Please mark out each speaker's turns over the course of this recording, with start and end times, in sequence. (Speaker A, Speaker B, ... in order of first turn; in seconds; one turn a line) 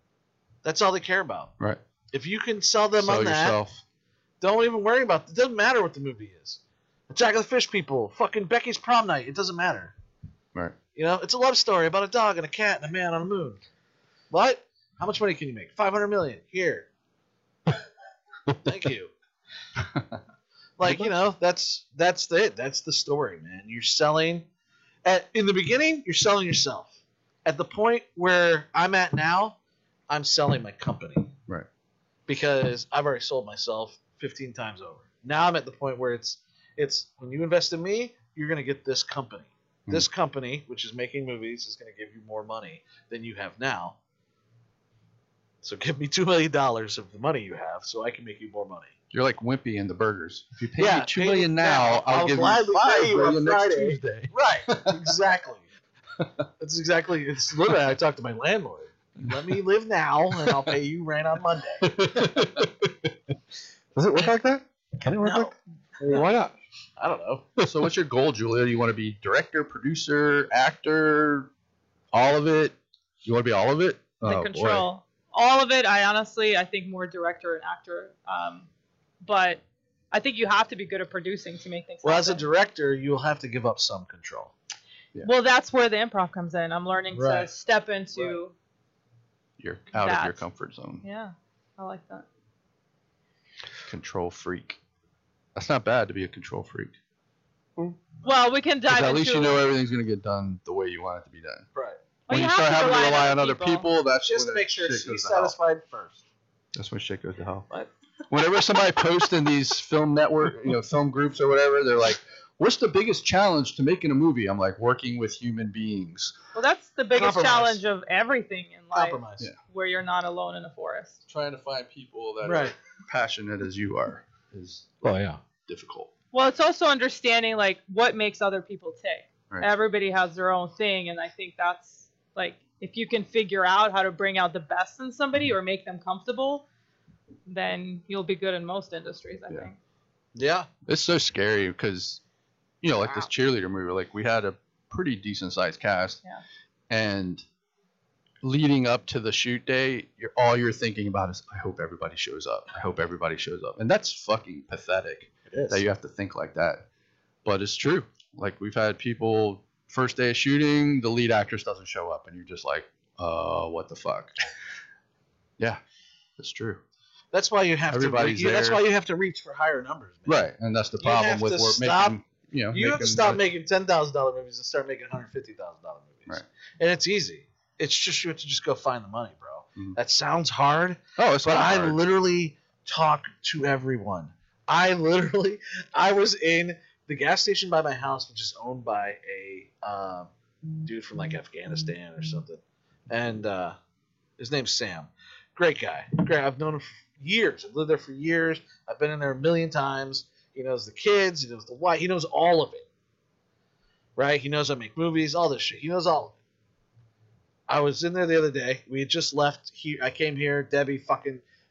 Speaker A: 0.6-1.5
Speaker A: 2.1-3.6
Speaker B: 3.0-3.8
Speaker A: 4.4-9.9
Speaker A: 10.9-13.6
Speaker A: 14.3-16.9
Speaker A: 18.6-19.1
Speaker A: 20.8-24.4
Speaker B: 20.8-21.1
Speaker A: 25.1-26.9
Speaker A: 27.4-29.6
Speaker A: 30.1-31.4
Speaker A: 32.3-44.0
Speaker A: 45.6-48.9
Speaker B: 49.1-55.0
Speaker A: 50.8-55.6
Speaker A: 56.6-61.9
Speaker C: 61.8-63.1
Speaker C: 64.0-66.5
Speaker A: 65.2-65.5
Speaker A: 67.0-67.5
Speaker B: 67.6-71.5
Speaker B: 72.1-74.8
Speaker D: 74.2-78.7
Speaker D: 79.2-82.5
Speaker A: 82.0-84.5
Speaker D: 85.2-88.5
Speaker A: 87.1-87.5
Speaker B: 89.6-91.0
Speaker D: 90.0-90.5
Speaker D: 91.0-92.3
Speaker B: 93.9-94.8
Speaker B: 95.5-97.0
Speaker D: 98.2-99.6
Speaker B: 98.9-101.7
Speaker A: 101.7-102.0
Speaker D: 102.3-103.9
Speaker B: 102.3-105.6
Speaker A: 104.2-106.2
Speaker B: 106.8-107.7
Speaker B: 108.3-116.4
Speaker D: 116.5-121.2
Speaker A: 117.1-117.8
Speaker A: 118.9-119.5
Speaker B: 121.3-124.9
Speaker A: 122.4-122.7
Speaker C: 125.0-125.4
Speaker B: 125.7-126.1
Speaker D: 126.3-136.7
Speaker D: 137.5-139.8
Speaker A: 140.3-140.7
Speaker B: 140.9-142.2
Speaker B: 142.8-146.2
Speaker B: 146.9-147.4
Speaker B: 148.4-156.8
Speaker A: 155.5-155.8
Speaker B: 157.4-164.3
Speaker B: 166.4-166.8
Speaker A: 167.3-170.5
Speaker B: 167.9-168.8
Speaker B: 170.3-173.4
Speaker A: 171.0-172.2
Speaker A: 172.7-190.3
Speaker B: 181.2-182.0
Speaker A: 190.8-193.8
Speaker A: 194.4-202.8
Speaker A: 204.2-206.4
Speaker A: 207.7-211.4